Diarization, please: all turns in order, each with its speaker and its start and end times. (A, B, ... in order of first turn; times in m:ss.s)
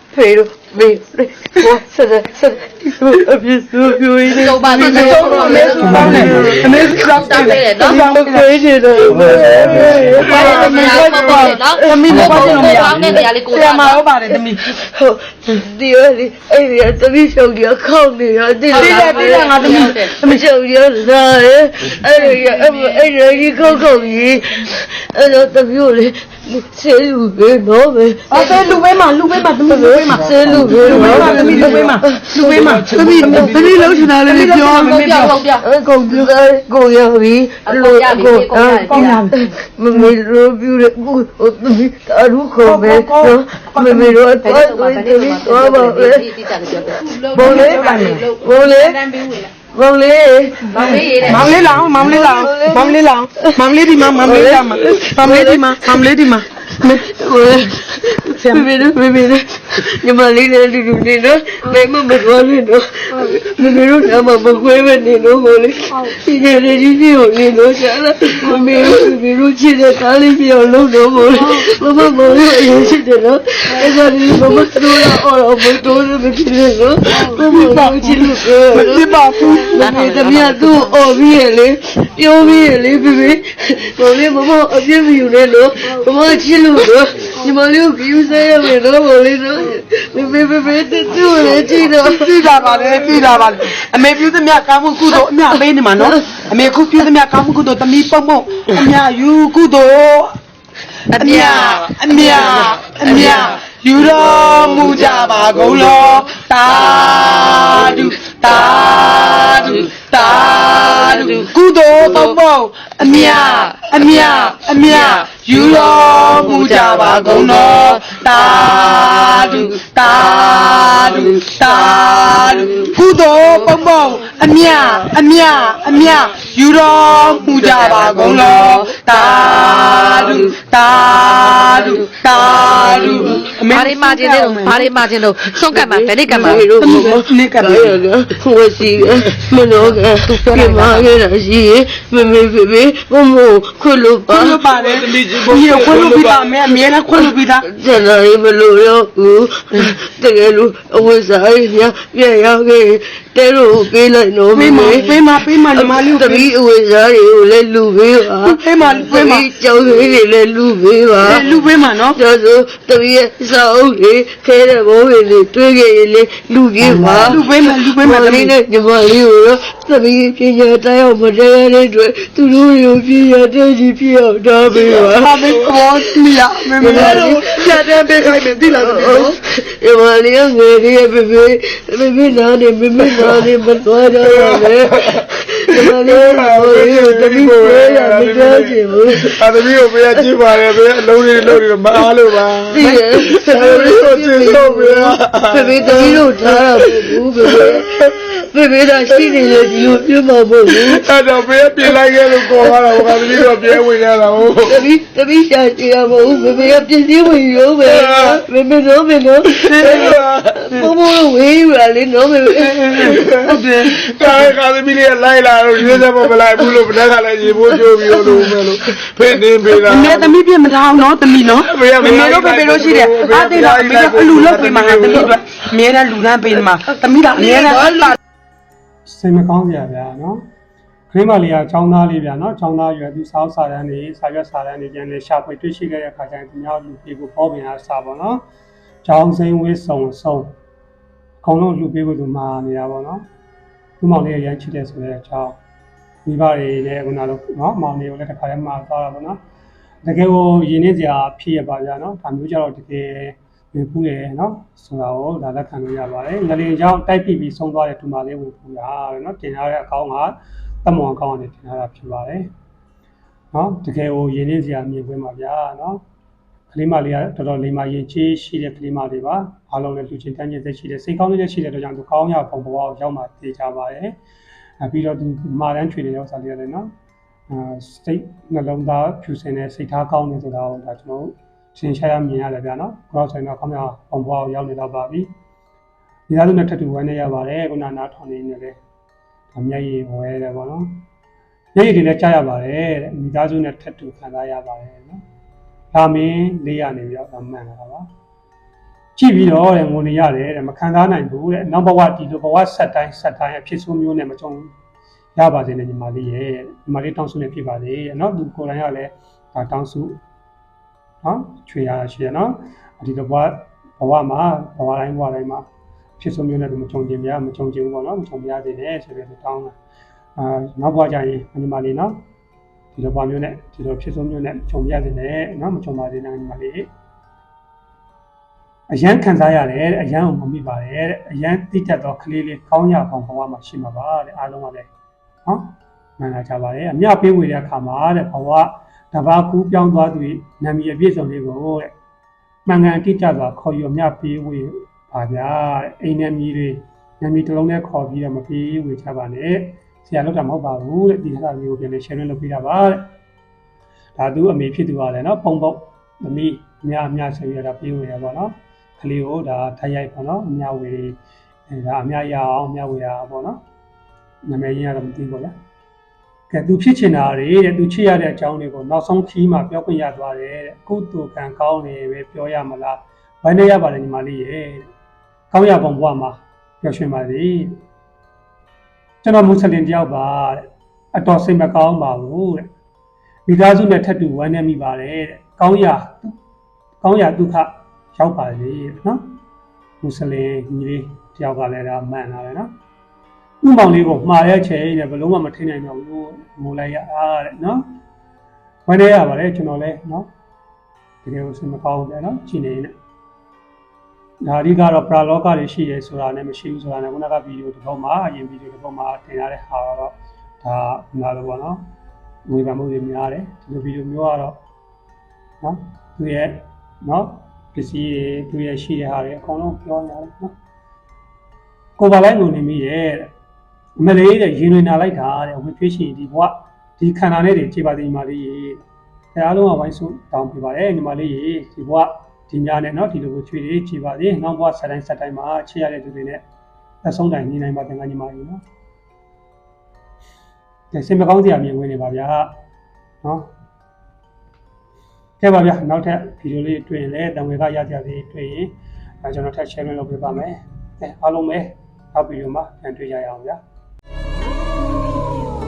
0:00.1-0:06.7 A
0:04.3-0:08.0 B
0:04.7-0:14.6 C
0:05.7-0:06.8 D
0:07.8-0:13.3 A
0:10.2-0:14.1 B
0:10.2-0:10.6 E
0:12.1-0:13.2 D
0:14.3-0:28.8 A
0:18.7-0:20.1 B
0:18.7-0:20.4 C
0:28.3-0:35.4 C
0:29.6-0:34.5 A
0:30.1-0:31.4 D
0:30.9-0:31.9 E
0:32.5-0:34.5 E
0:34.3-0:35.6 B
0:35.6-0:46.3 A
0:37.6-0:39.3 B
0:38.9-0:39.3 C
0:42.6-0:44.2 C
0:44.4-0:49.5 B
0:47.3-0:48.3 C
0:47.4-0:49.0 A
0:49.7-0:56.0 A
0:50.7-0:51.8 B
0:50.7-0:57.1 C
0:57.0-1:32.5 A
0:58.4-0:58.8 C
1:17.4-1:19.7 C
1:19.8-1:21.0 B
1:32.0-1:40.4 C
1:36.0-1:36.3 A
1:41.1-1:43.6 B
1:41.1-2:14.9 C
1:48.8-1:51.5 B
1:52.1-1:52.4 B
1:53.0-2:02.9 B
2:03.5-2:03.9 B
2:04.6-2:05.2 B
2:07.6-2:10.5 B
2:11.2-2:16.7 B
2:13.0-2:13.5 A
2:15.7-2:24.6 A
2:16.3-2:18.0 C
2:20.3-2:21.1 B
2:24.3-2:27.7 C
2:24.8-2:26.2 E
2:27.2-2:35.2 A
2:34.5-2:36.5 C
2:35.7-2:41.5 A
2:38.4-2:39.5 C
2:41.2-2:42.2 C
2:42.1-2:55.6 A
2:46.8-2:48.6 C
2:55.2-2:57.4 C
2:56.8-3:09.5 A
2:56.8-2:59.3 E
3:04.2-3:05.2 E
3:05.8-3:17.8 E
3:12.7-3:21.0 A
3:20.7-3:24.8 E
3:24.6-3:34.4 A
3:27.9-3:28.4 E
3:29.6-3:30.9 E
3:32.6-3:40.3 E
3:37.9-3:38.5 A
3:39.8-3:48.2 C
3:41.6-3:45.3 E
3:47.6-3:48.2 A
3:49.0-3:50.4 D
3:51.1-3:58.4 D
3:59.0-4:00.5 D
4:01.4-4:03.2 D
4:04.0-4:05.6 D
4:06.2-4:09.4 D
4:10.0-4:22.5 D
4:23.5-4:26.0 D
4:26.7-4:34.2 D
4:34.8-4:36.9 D
4:37.5-4:45.3 D
4:46.3-4:48.8 D
4:49.5-4:51.0 D
4:51.7-4:55.2 D
4:55.9-4:58.1 D
4:59.2-5:04.7 D
5:05.4-5:10.2 D
5:11.2-5:15.6 D
5:16.2-5:19.7 D
5:20.4-5:22.2 D
5:22.9-5:26.9 D
5:28.9-5:34.9 D
5:35.4-5:41.9 D
5:42.6-5:53.1 D
5:54.2-6:01.2 D
6:01.7-6:03.6 D
6:04.5-6:05.5 D
6:06.5-6:14.9 D
6:15.5-6:17.8 D
6:19.2-6:22.7 D
6:23.5-6:26.4 D
6:27.0-6:29.2 D
6:30.0-6:32.7 D
6:33.6-6:37.9 D
6:38.9-6:40.3 D
6:41.2-6:42.9 D
6:44.4-6:51.8 D
6:52.5-6:54.6 D
6:55.6-7:00.5 D
7:02.0-7:03.3 D
7:04.0-7:08.8 D
7:09.4-7:16.4 D
7:17.0-7:18.6 D
7:20.9-7:22.6 D
7:23.2-7:23.5 D
7:25.4-7:33.6 D